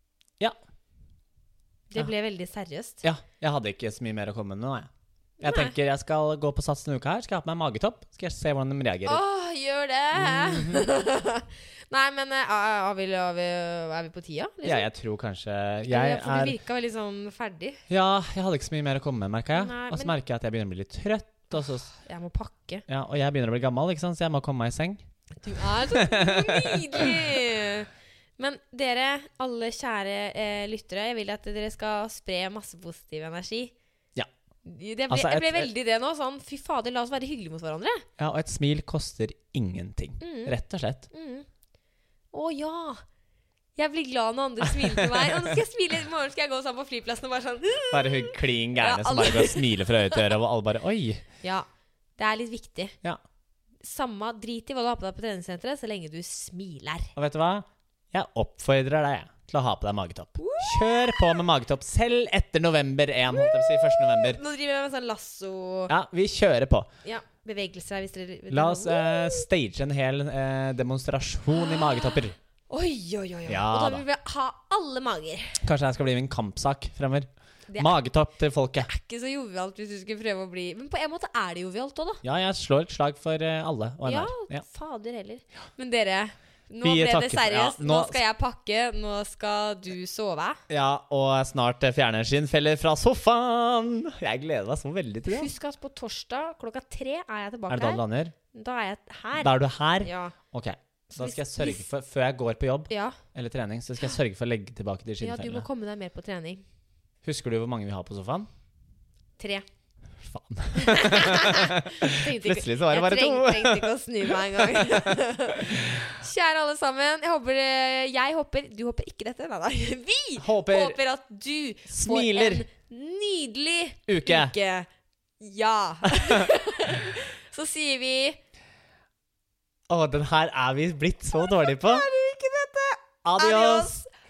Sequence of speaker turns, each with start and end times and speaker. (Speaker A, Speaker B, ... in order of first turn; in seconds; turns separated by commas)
Speaker A: 1.9-3.0, Speaker B: 3.0-4.9, Speaker B: 5.4-9.2, Speaker A: 5.4-5.8, Speaker A: 9.1-14.9, Speaker B: 10.2-10.9, Speaker B: 14.7-16.6, Speaker A: 15.9-17.8, Speaker B: 17.9-21.9, Speaker A: 19.5-20.1, Speaker A: 21.9-22.9, Speaker B: 22.9-25.0, Speaker A: 25.4-33.7, Speaker B: 25.9-27.2, Speaker A: 34.6-38.0, Speaker B: 35.1-35.7, Speaker B: 38.2-41.1, Speaker A: 40.2-40.6, Speaker A: 41.1-41.5, Speaker A: 42.3-43.0, Speaker A: 43.8-50.3, Speaker B: 44.7-45.6, Speaker B: 47.9-51.2, Speaker A: 52.2-53.0, Speaker A: 53.8-57.1, Speaker B: 57.2-64.4, Speaker A: 60.4-61.4, Speaker A: 63.3-65.9, Speaker B: 65.9-66.9, Speaker A: 67.0-69.5, Speaker B: 68.5-72.4, Speaker A: 71.5-72.2, Speaker A: 72.7-75.6, Speaker B: 73.5-74.0, Speaker B: 75.6-78.9, Speaker A: 77.7-78.0, Speaker A: 78.8-82.2, Speaker B: 82.2-84.6, Speaker A: 84.0-90.6, Speaker B: 86.8-88.2, Speaker B: 90.7-95.5, Speaker A: 95.3-98.0, Speaker B: 97.7-98.3, Speaker A: 98.5-100.4, Speaker B: 99.4-105.7, Speaker A: 101.1-101.8, Speaker A: 102.9-103.2, Speaker A: 105.2-106.6, Speaker B: 107.2-108.5, Speaker A: 109.4-109.7, Speaker B: 110.2-116.0, Speaker A: 110.7-124.9, Speaker B: 120.4-121.0, Speaker B: 121.9-122.7, Speaker B: 124.1-124.5, Speaker A: 125.4-128.4, Speaker B: 126.1-126.5, Speaker B: 129.9-132.1, Speaker A: 131.3-134.1, Speaker B: 133.2-133.9